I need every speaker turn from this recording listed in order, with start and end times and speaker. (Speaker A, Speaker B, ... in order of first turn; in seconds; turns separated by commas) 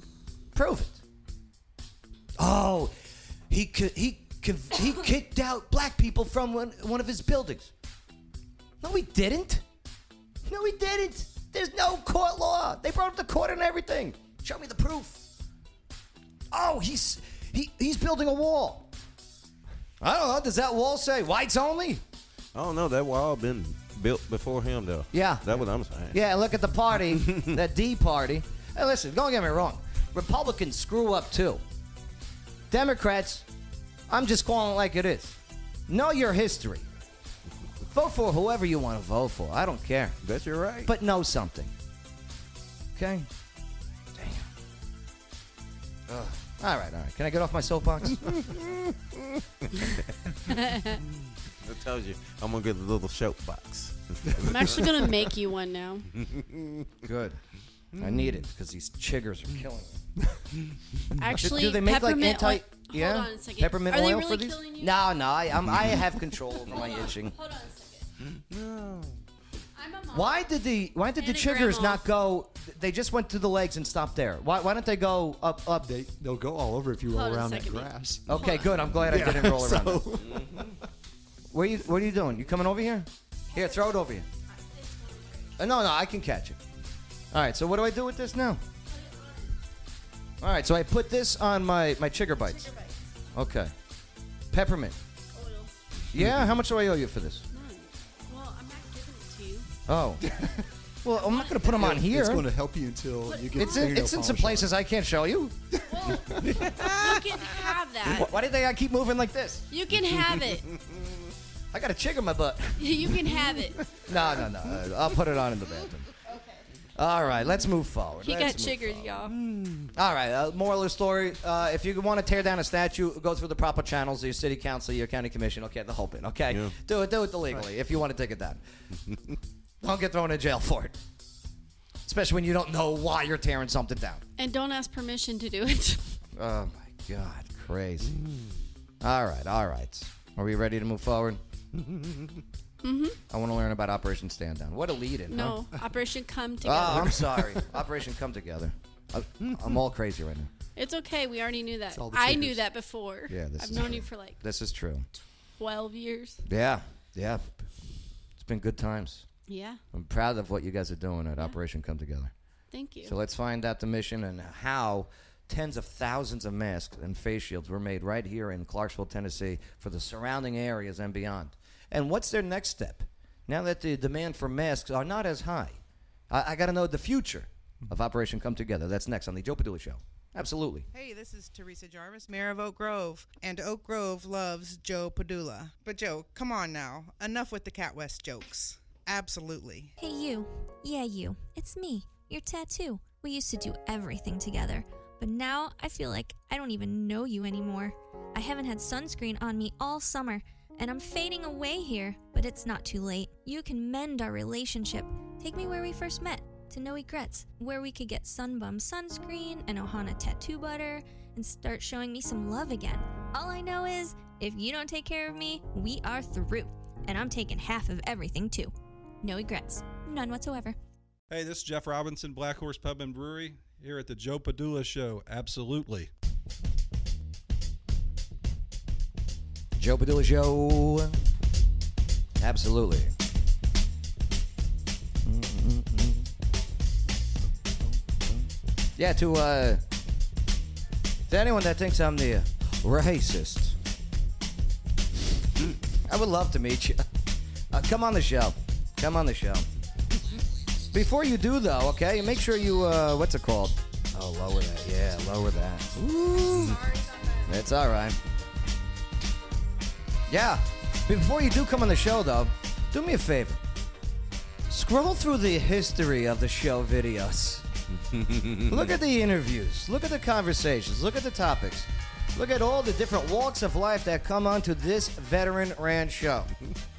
Speaker A: 0.5-1.0, Speaker A: 2.4-2.9, Speaker A: 3.5-7.7, Speaker A: 8.8-9.6, Speaker A: 10.5-15.2, Speaker A: 16.5-18.9, Speaker A: 20.0-22.0, Speaker B: 22.6-26.2, Speaker A: 25.1-31.6, Speaker B: 27.2-27.5, Speaker A: 32.7-33.5, Speaker A: 34.1-35.4, Speaker A: 35.9-36.9, Speaker A: 37.9-40.2, Speaker B: 40.2-40.9, Speaker A: 40.9-41.7, Speaker A: 43.0-43.3, Speaker A: 44.1-44.5, Speaker A: 46.1-48.7, Speaker B: 48.3-48.9, Speaker B: 49.8-50.1, Speaker C: 50.5-51.0, Speaker B: 50.9-55.1, Speaker C: 54.4-56.1, Speaker B: 56.2-56.9, Speaker A: 57.0-57.4, Speaker B: 58.0-58.4, Speaker A: 58.0-60.0, Speaker C: 61.2-65.0, Speaker A: 61.4-67.4, Speaker C: 66.6-68.1, Speaker B: 68.3-69.2, Speaker C: 69.8-70.5, Speaker A: 70.1-75.9, Speaker C: 71.2-72.0, Speaker D: 75.8-78.4, Speaker C: 77.1-78.8, Speaker A: 78.3-80.2, Speaker D: 79.0-80.8, Speaker A: 81.5-84.3, Speaker C: 83.5-85.6, Speaker A: 85.6-86.6, Speaker A: 87.3-88.6, Speaker C: 88.9-89.5, Speaker A: 90.4-92.7, Speaker C: 92.4-93.0, Speaker A: 93.3-93.7, Speaker A: 94.5-95.0, Speaker C: 95.3-95.8, Speaker A: 96.1-97.4, Speaker C: 97.5-99.7, Speaker A: 99.9-100.3, Speaker D: 100.2-100.5, Speaker A: 101.0-102.5, Speaker C: 101.1-101.9, Speaker D: 101.7-104.7, Speaker C: 103.3-104.0, Speaker A: 103.5-105.6, Speaker C: 105.8-108.3, Speaker D: 106.2-106.7, Speaker A: 108.1-109.7, Speaker C: 109.7-110.7, Speaker A: 111.7-113.2, Speaker C: 112.8-113.9, Speaker A: 114.0-116.1, Speaker A: 117.0-119.2, Speaker C: 118.2-119.3, Speaker B: 119.3-119.9, Speaker A: 119.9-128.6, Speaker A: 129.8-131.0, Speaker A: 132.1-134.2, Speaker C: 134.4-136.2, Speaker A: 136.3-138.2, Speaker B: 138.2-138.5, Speaker A: 139.0-141.4, Speaker B: 141.8-142.3, Speaker C: 142.8-143.2, Speaker A: 143.3-145.6, Speaker C: 145.3-147.2, Speaker A: 146.6-150.5, Speaker D: 147.0-147.6, Speaker C: 150.8-154.4, Speaker D: 151.9-152.6, Speaker A: 153.3-155.1, Speaker C: 155.6-156.4, Speaker A: 156.5-157.7, Speaker A: 158.4-159.2, Speaker C: 159.5-159.8, Speaker A: 159.9-162.3, Speaker C: 162.7-163.1, Speaker A: 163.0-175.8, Speaker A: 176.3-180.9, Speaker E: 180.9-189.9, Speaker F: 190.0-218.7, Speaker F: 219.2-220.8, Speaker G: 221.3-226.1, Speaker A: 229.8-231.2, Speaker A: 232.4-233.1, Speaker A: 235.2-236.3, Speaker A: 238.1-239.8, Speaker A: 241.3-243.8, Speaker A: 246.1-247.0, Speaker A: 247.7-249.7, Speaker A: 250.9-256.8, Speaker C: 256.6-257.5, Speaker A: 257.5-258.2, Speaker A: 260.3-263.6, Speaker A: 264.7-267.6, Speaker B: 268.0-268.9, Speaker A: 268.7-276.5